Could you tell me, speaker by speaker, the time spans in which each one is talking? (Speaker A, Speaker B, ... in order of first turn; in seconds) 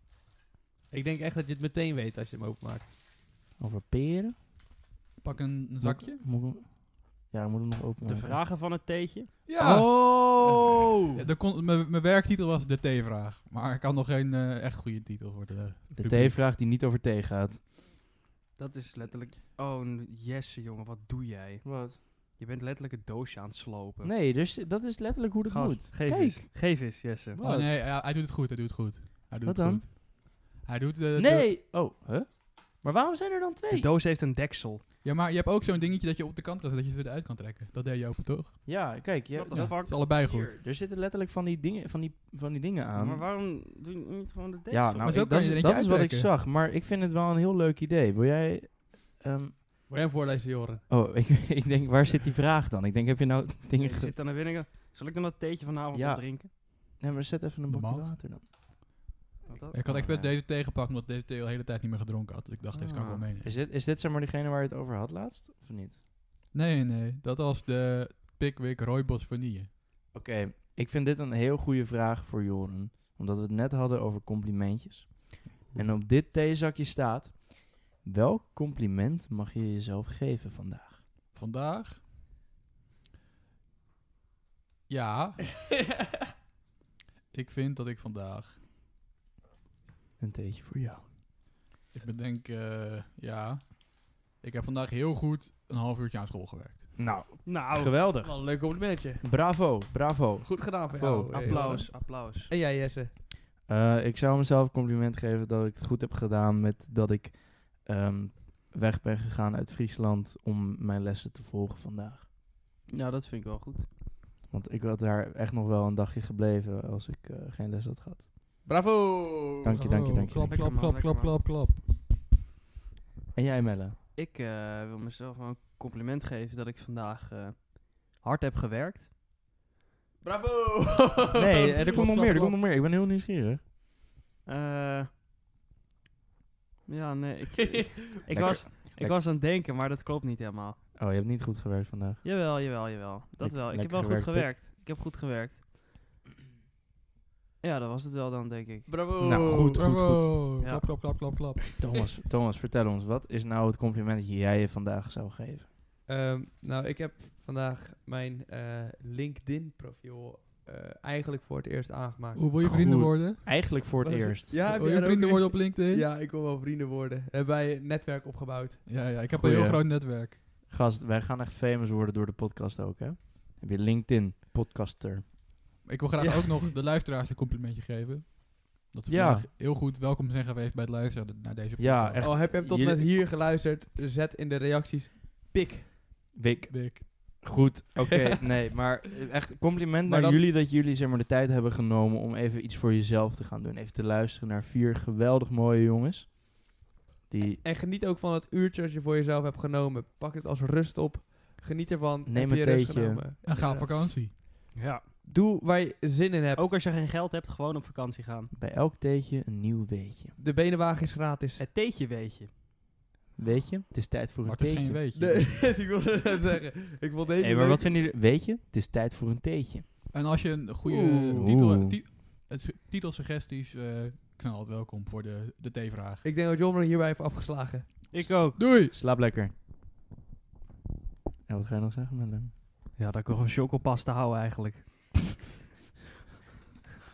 Speaker A: 0.9-2.9, 49.9-50.8, 98.2-99.2, 100.4-103.1, 118.7-119.8, 130.2-132.0, 137.6-137.9, 148.9-149.8, 156.1-162.5, 164.0-168.9, 176.2-176.7, 182.2-185.9, 190.1-190.4, 197.6-204.4, 205.2-206.7, 210.4-211.6, 215.1-217.9, 226.2-227.9
Speaker B: 3.6-4.4, 5.8-8.4, 9.6-11.1, 16.0-17.6, 21.6-22.0, 24.0-26.4, 27.4-27.8, 29.4-29.8, 31.2-33.9, 38.7-43.2, 44.7-49.5, 50.9-54.1, 55.9-58.4, 59.9-60.3, 62.7-66.0, 70.1-81.0, 90.2-91.1, 97.0-98.6, 99.2-101.8, 103.7-112.3, 114.5-118.3, 119.6-120.7, 123.3-124.0, 131.3-133.6, 138.3-139.2, 141.0-142.2, 143.4-144.5, 149.2-150.4, 151.8-155.7, 162.6-164.5, 169.3-169.8, 170.7-175.5, 179.1-179.5, 181.8-183.1, 186.3-197.6, 202.2-203.2, 208.5-210.3, 213.4-215.0, 217.4-219.9, 220.8-222.0, 228.9-229.5, 231.5-232.5
Speaker C: 5.2-6.2, 9.5-10.2, 11.1-16.4, 27.4-31.5, 35.0-38.6, 39.5-40.5, 45.0-46.3, 57.7-58.1, 59.7-63.5, 66.5-69.7, 81.3-82.0, 84.9-85.6, 87.3-88.6, 91.9-97.0, 119.7-121.8, 131.8-132.6, 149.7-151.7, 162.3-163.4, 164.6-166.1, 168.8-170.4, 175.8-182.3, 186.7-187.1, 203.4-204.3, 214.4-215.5, 220.1-226.2, 228.5-228.9
Speaker D: 8.1-9.3, 18.6-24.1, 25.5-27.4, 33.7-34.8, 39.3-40.6, 43.0-45.1, 53.8-56.5, 59.5-59.8, 97.5-97.9, 101.3-102.5, 112.9-113.9, 120.4-121.4, 124.2-129.1, 134.5-135.1, 136.9-140.8, 142.2-145.6, 147.6-148.9, 150.6-151.0, 204.8-205.1, 206.6-208.5, 211.6-212.5, 228.1-228.6, 233.0-235.2